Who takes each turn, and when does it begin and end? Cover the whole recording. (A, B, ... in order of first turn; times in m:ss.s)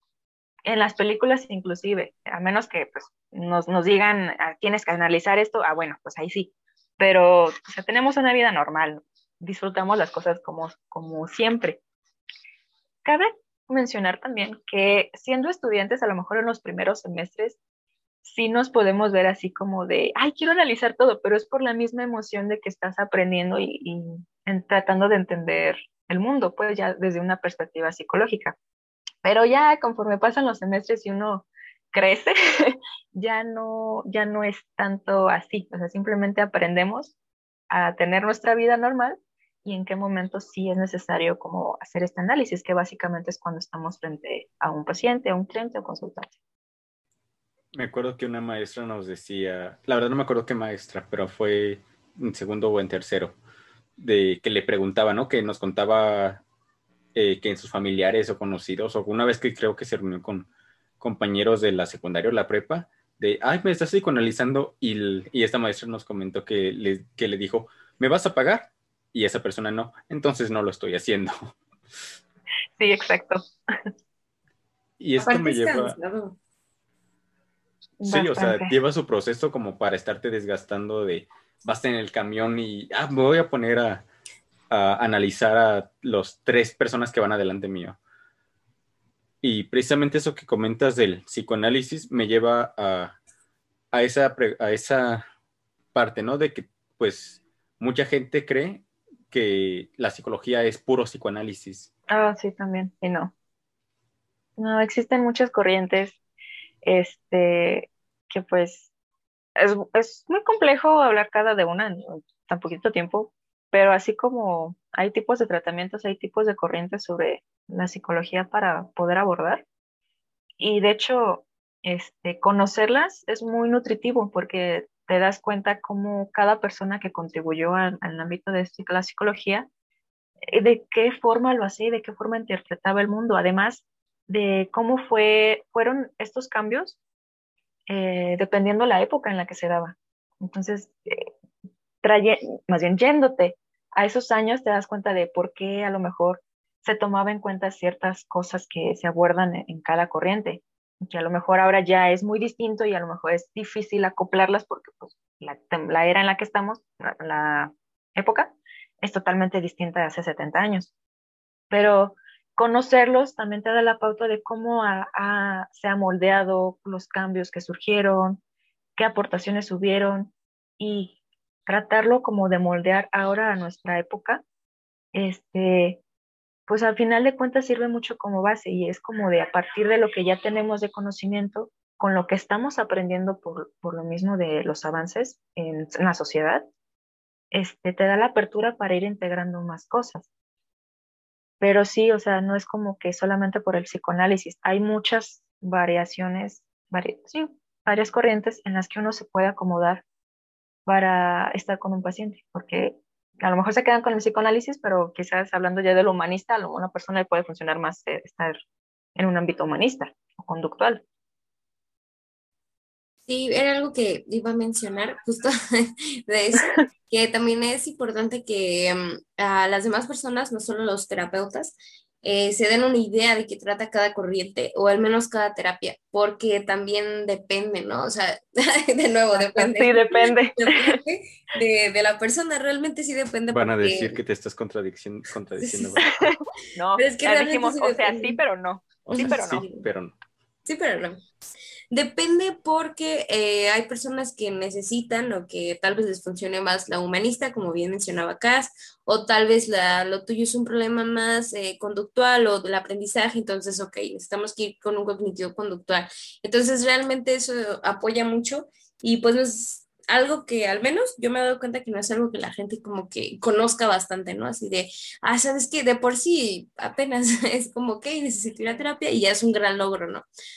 0:00.7-0:11.8 A
0:13.0-0:17.6 A
0:18.2-0:28.6 A
0:29.2-0:37.2 A
0:37.7-0:46.3 A
0:47.7-0:53.4 B
0:54.0-0:56.4 B
0:57.2-1:00.5 B
1:01.0-1:11.6 B
1:12.8-1:13.5 A
1:15.0-1:16.0 B
1:15.2-1:16.4 C
1:18.0-1:18.7 A
1:18.1-1:24.1 B
1:24.7-1:28.0 B
1:29.4-1:33.2 B
1:33.9-1:35.2 B
1:35.9-1:41.9 B
1:42.1-1:43.3 A
1:44.6-1:46.2 A
1:46.8-1:48.9 A
1:49.6-1:59.6 A
2:00.6-2:09.7 A
2:10.5-2:17.0 A
2:17.9-2:21.3 A
2:22.0-2:40.9 A
2:41.7-2:48.4 A
2:49.0-2:51.2 A
2:51.7-2:54.4 A
2:55.1-2:56.0 A
2:56.7-3:06.6 A
3:07.5-3:10.3 A
3:11.6-3:20.0 A
3:20.9-3:28.6 A
3:29.2-3:31.0 A
3:33.3-3:54.2 C
3:49.3-3:51.0 A
3:53.5-3:56.2 B
3:55.6-3:56.0 C
3:56.2-3:59.6 A
3:57.0-3:58.4 C
3:59.1-4:00.2 B
3:59.2-3:59.9 C
4:00.6-4:01.2 C
4:01.9-4:30.3 C